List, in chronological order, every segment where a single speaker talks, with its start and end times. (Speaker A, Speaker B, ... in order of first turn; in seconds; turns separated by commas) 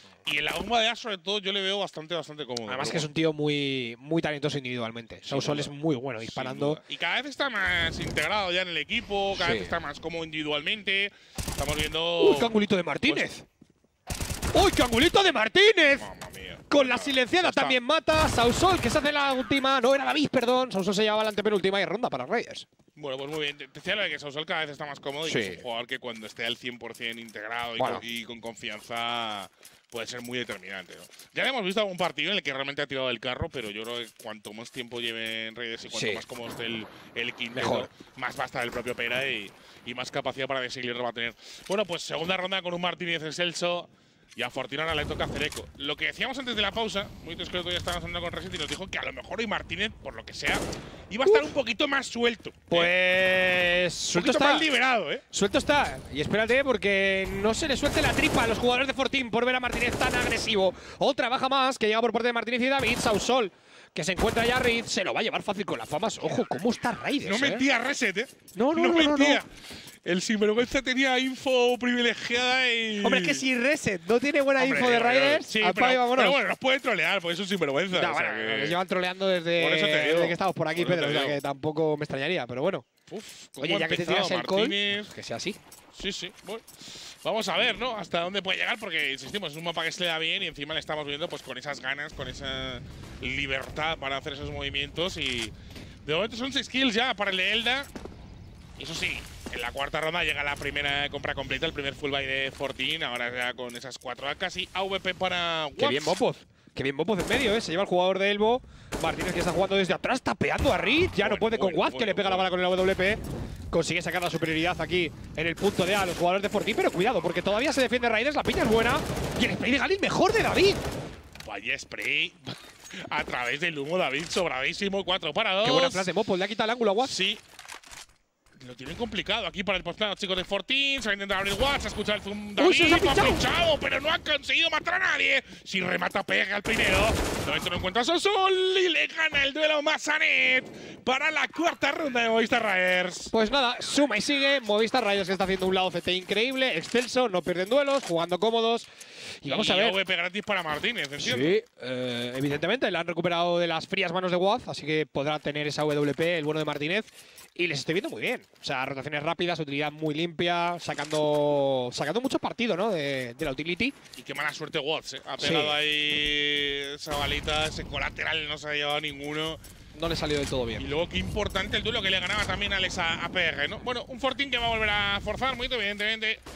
Speaker A: 0.2-3.0, Speaker B: 2.7-6.8, Speaker A: 5.3-13.3, Speaker B: 9.3-9.7, Speaker B: 12.2-13.4, Speaker B: 14.5-16.1, Speaker A: 16.0-17.8, Speaker B: 16.7-22.7, Speaker A: 23.0-52.9, Speaker B: 25.2-25.6, Speaker B: 27.8-28.0, Speaker B: 35.9-36.2, Speaker B: 37.5-37.9, Speaker B: 52.7-54.7, Speaker A: 54.1-55.2, Speaker B: 55.3-67.6, Speaker A: 67.2-69.5, Speaker B: 68.5-69.4, Speaker A: 70.0-73.4, Speaker B: 73.0-76.4, Speaker A: 74.6-78.8, Speaker B: 77.9-82.9, Speaker A: 79.6-81.4, Speaker A: 83.1-85.1, Speaker B: 83.6-85.6, Speaker A: 86.0-95.5, Speaker A: 96.0-97.9, Speaker A: 98.8-106.2, Speaker B: 105.8-113.2, Speaker A: 111.2-112.5, Speaker B: 113.7-120.8, Speaker A: 121.4-126.1, Speaker B: 125.6-127.1, Speaker A: 127.0-127.4, Speaker A: 128.6-143.3, Speaker B: 132.6-133.4, Speaker B: 143.3-148.9, Speaker B: 149.4-150.0, Speaker A: 149.5-151.6, Speaker B: 151.2-163.9, Speaker A: 164.2-169.6, Speaker B: 165.4-165.8, Speaker B: 169.9-170.9, Speaker A: 170.8-176.4